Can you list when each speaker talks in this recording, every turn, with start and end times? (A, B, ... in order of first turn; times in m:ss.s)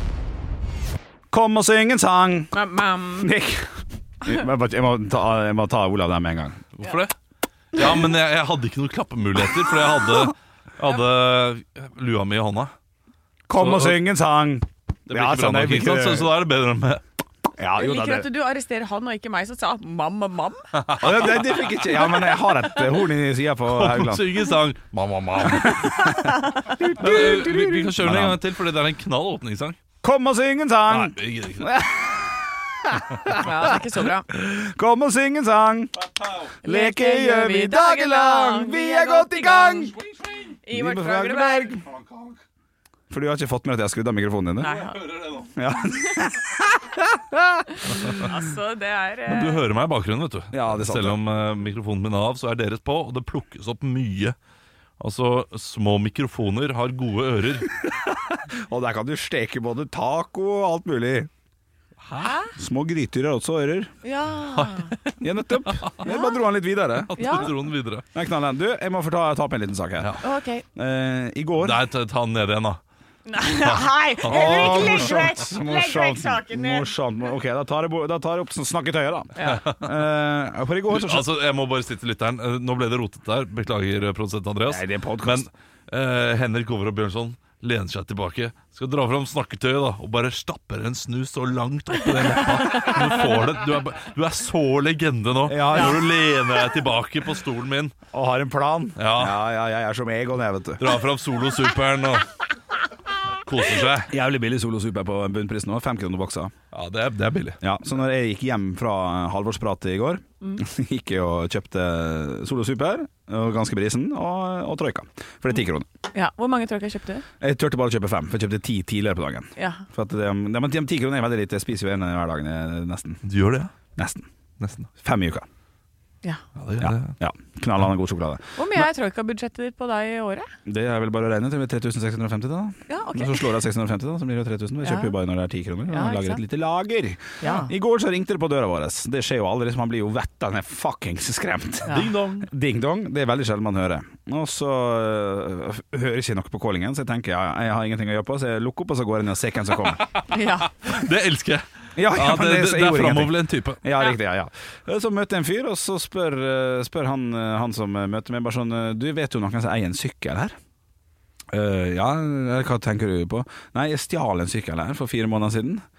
0:01.3-0:02.6 A
0:02.5-0:03.3 B
0:03.1-0:06.6 A
0:06.8-0:07.1 C
0:07.7-0:12.7 C
0:13.5-0:16.3 A
0:13.5-0:14.0 C
0:15.1-0:17.0 C
0:17.6-0:18.3 A
0:17.7-0:20.7 B
0:20.8-0:22.4 C
0:21.0-0:24.4 A
0:23.7-0:26.0 C
0:25.5-0:28.4 A
0:26.0-0:26.7 B
0:26.9-0:29.8 C
0:30.0-0:33.7 A
0:30.9-0:31.7 C
0:33.3-0:34.3 B
0:34.3-0:35.9 A
0:36.2-0:36.5 C
0:36.6-0:39.9 A
0:36.6-0:39.9 B
0:40.0-0:40.5 C
0:40.6-0:41.8 B
0:40.7-0:41.8 A
0:41.8-0:42.4 C
0:43.1-0:44.8 A
0:44.6-0:45.0 B
0:44.8-0:45.5 C
0:45.5-0:48.0 A
0:47.8-0:49.6 B
0:49.2-0:54.4 C
0:50.5-0:51.2 A
0:55.0-0:57.7 C
0:58.5-1:01.3 A
1:02.1-1:02.5 B
1:02.5-1:03.9 A
1:04.0-1:05.0 B
1:04.5-1:04.9 C
1:05.2-1:07.5 A
1:05.7-1:06.0 C
1:06.0-1:06.4 B
1:07.0-1:08.0 C
1:07.2-1:07.5 B
1:08.1-1:10.2 A
1:10.2-1:10.6 B
1:10.7-1:11.8 A
1:11.6-1:12.8 C
1:13.3-1:16.9 B
1:13.4-1:15.3 C
1:14.2-1:21.2 A
1:19.4-1:19.8 C
1:20.9-1:38.0 C
1:24.7-1:25.5 A
1:35.4-1:36.0 A
1:35.7-1:36.0 B
1:38.1-1:41.0 A
1:39.0-1:39.4 C
1:40.8-1:42.3 C
1:43.4-1:44.1 C
1:44.1-1:46.5 A
1:46.7-1:47.6 C
1:47.6-1:55.8 A
1:56.1-1:57.2 B
1:57.4-2:03.2 A
1:59.6-1:59.8 B
2:03.2-2:03.7 C
2:03.9-2:04.3 A
2:04.6-2:04.9 C
2:04.9-2:05.4 A
2:06.6-2:07.1 C
2:06.8-2:08.8 A
2:08.6-2:10.5 B
2:10.6-2:30.0 A
2:12.9-2:13.6 B
2:14.8-2:15.1 B
2:15.9-2:16.4 B
2:17.4-2:17.7 B
2:21.9-2:22.5 C
2:29.9-2:33.8 C
2:30.3-2:30.7 B
2:32.0-2:40.5 A
2:41.5-2:45.8 A